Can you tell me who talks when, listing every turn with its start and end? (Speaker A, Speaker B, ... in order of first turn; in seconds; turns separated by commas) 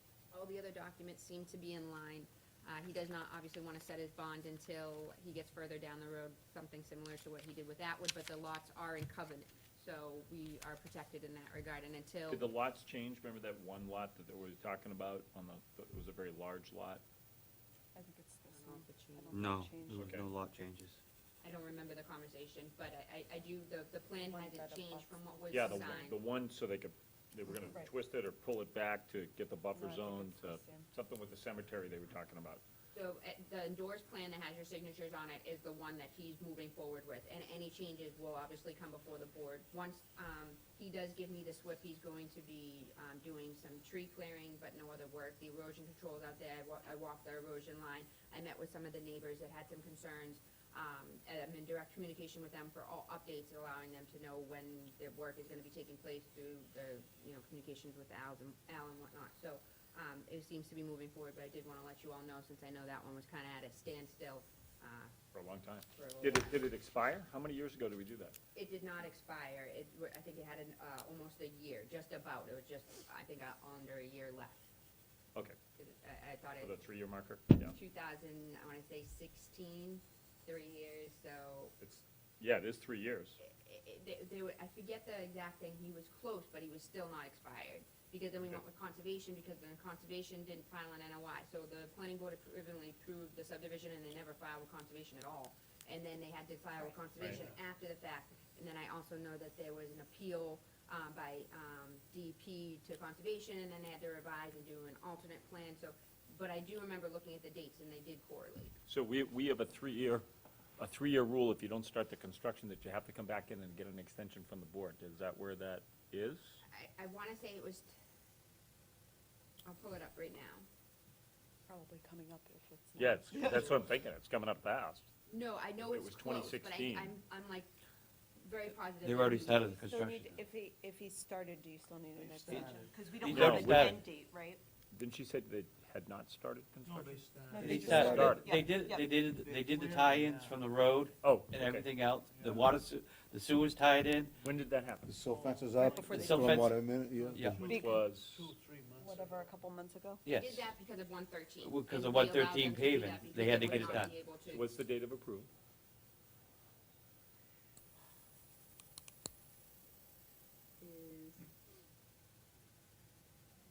Speaker A: 0.3-12.5, Speaker B: 12.3-17.0, Speaker C: 17.9-20.1, Speaker A: 18.5-19.4, Speaker D: 19.3-21.0, Speaker B: 19.9-20.3, Speaker A: 21.4-26.2, Speaker C: 24.2-25.6, Speaker B: 25.5-32.6, Speaker C: 27.6-27.9, Speaker C: 29.7-30.9, Speaker A: 32.9-65.1, Speaker B: 65.3-68.3, Speaker A: 65.9-66.5, Speaker A: 68.5-74.7, Speaker A: 75.8-76.7, Speaker B: 76.6-77.7, Speaker A: 77.7-81.7, Speaker B: 81.8-83.4, Speaker A: 83.4-108.7, Speaker E: 97.2-97.6, Speaker B: 108.9-110.2, Speaker B: 110.8-116.6, Speaker A: 116.7-117.9, Speaker A: 119.6-120.7, Speaker C: 121.7-123.7, Speaker B: 123.0-125.1, Speaker A: 125.3-127.7, Speaker B: 125.8-127.1, Speaker A: 128.4-129.8, Speaker D: 129.0-130.4, Speaker C: 129.8-134.6, Speaker E: 132.2-133.8, Speaker D: 133.2-134.0, Speaker B: 133.2-133.8, Speaker B: 134.9-137.2, Speaker E: 136.8-137.9, Speaker C: 137.5-139.1, Speaker D: 137.6-144.3, Speaker F: 137.7-138.4, Speaker B: 137.9-138.5, Speaker E: 138.6-140.7, Speaker B: 141.2-141.9, Speaker E: 142.3-142.7, Speaker B: 144.4-145.1, Speaker F: 145.1-147.5, Speaker E: 145.2-146.4, Speaker C: 145.8-146.6, Speaker D: 146.1-146.8, Speaker E: 147.1-149.5, Speaker D: 147.3-147.7, Speaker B: 147.5-148.5, Speaker C: 147.5-148.0, Speaker C: 149.0-150.2, Speaker D: 150.2-150.7, Speaker A: 150.4-154.7, Speaker D: 151.6-154.1, Speaker B: 153.5-155.5, Speaker A: 160.8-161.4